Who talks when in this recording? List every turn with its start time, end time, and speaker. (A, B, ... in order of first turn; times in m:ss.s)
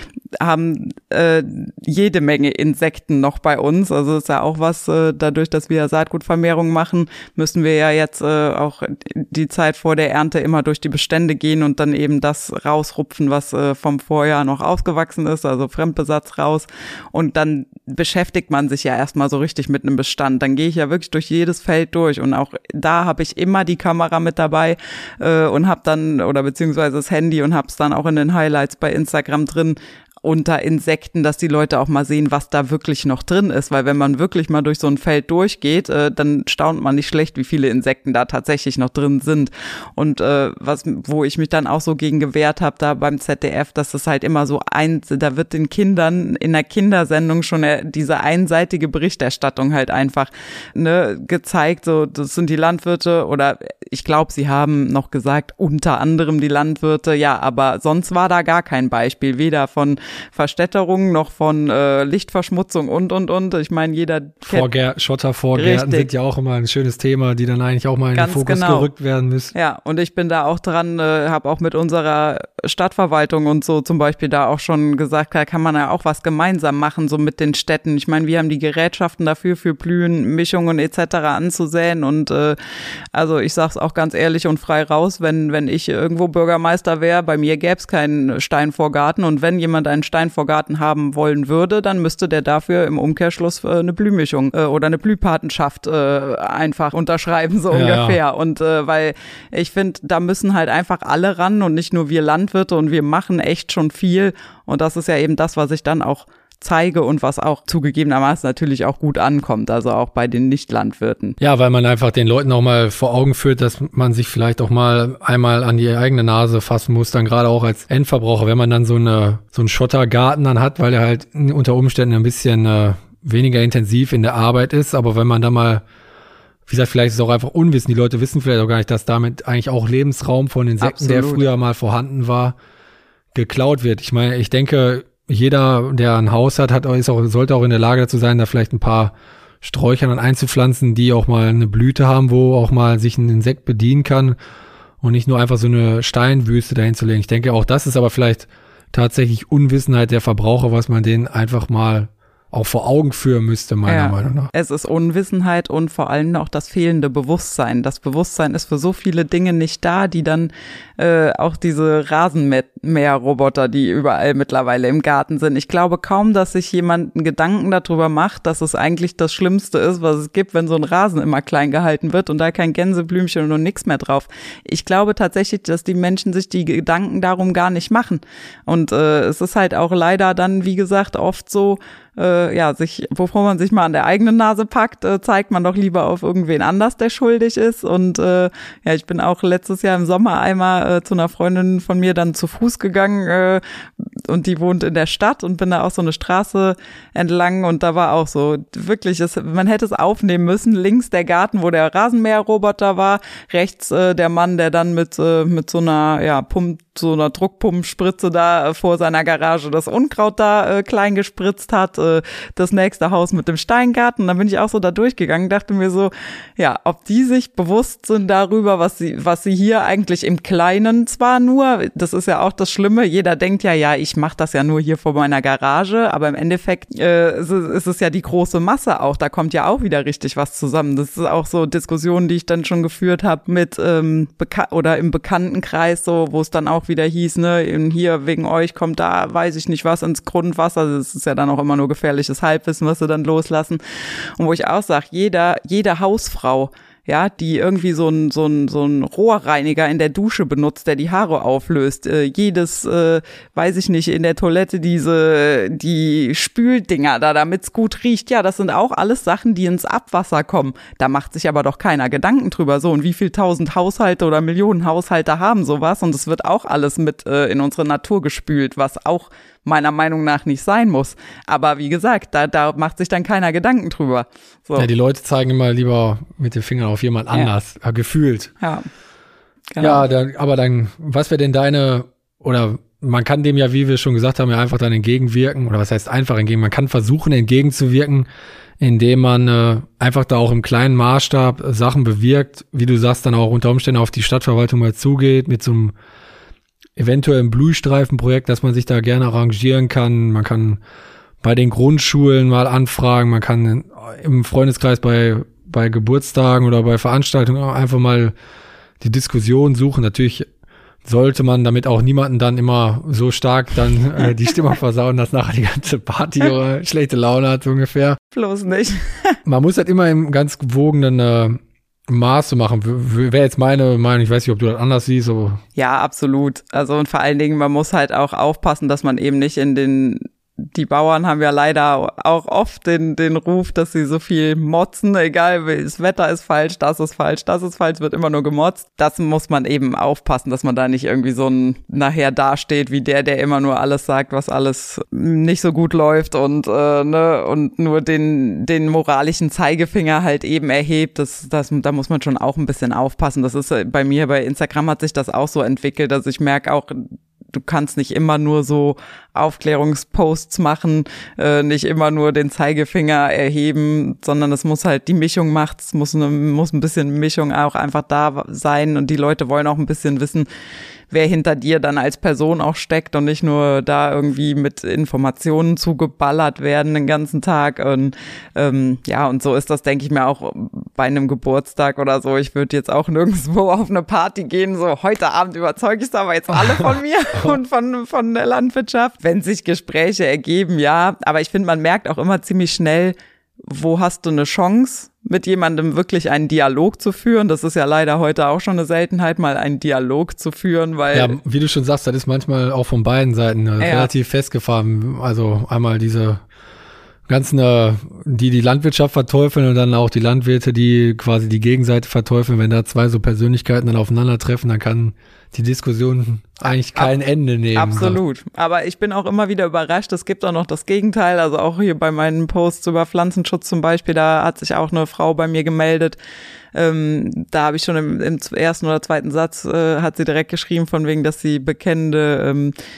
0:00.4-1:04.7 A
1:04.4-1:09.5 B
1:05.5-1:06.1 A
1:08.1-1:08.9 A
1:09.5-1:22.6 A
1:23.1-1:51.4 A
1:37.7-1:38.2 B
1:51.4-2:05.8 B
2:06.7-2:12.6 B
2:10.8-2:11.4 A
2:13.3-2:24.4 B
2:25.0-2:34.5 B
2:33.8-3:13.6 A
3:14.2-4:03.8 A
4:04.4-4:34.9 A
4:34.8-4:38.5 B
4:39.7-4:40.1 A
4:39.8-4:48.3 B
4:48.8-4:55.9 B
4:57.0-5:00.8 B
5:01.4-5:08.3 B
5:09.0-5:10.5 B
5:11.0-5:18.2 B
5:18.3-5:19.4 A
5:19.4-5:25.6 B
5:25.8-6:10.5 A
6:11.1-6:41.3 A
6:41.1-6:46.4 B
6:43.8-6:44.1 A
6:47.3-6:58.2 B
6:57.7-7:06.2 A
7:06.7-7:12.7 A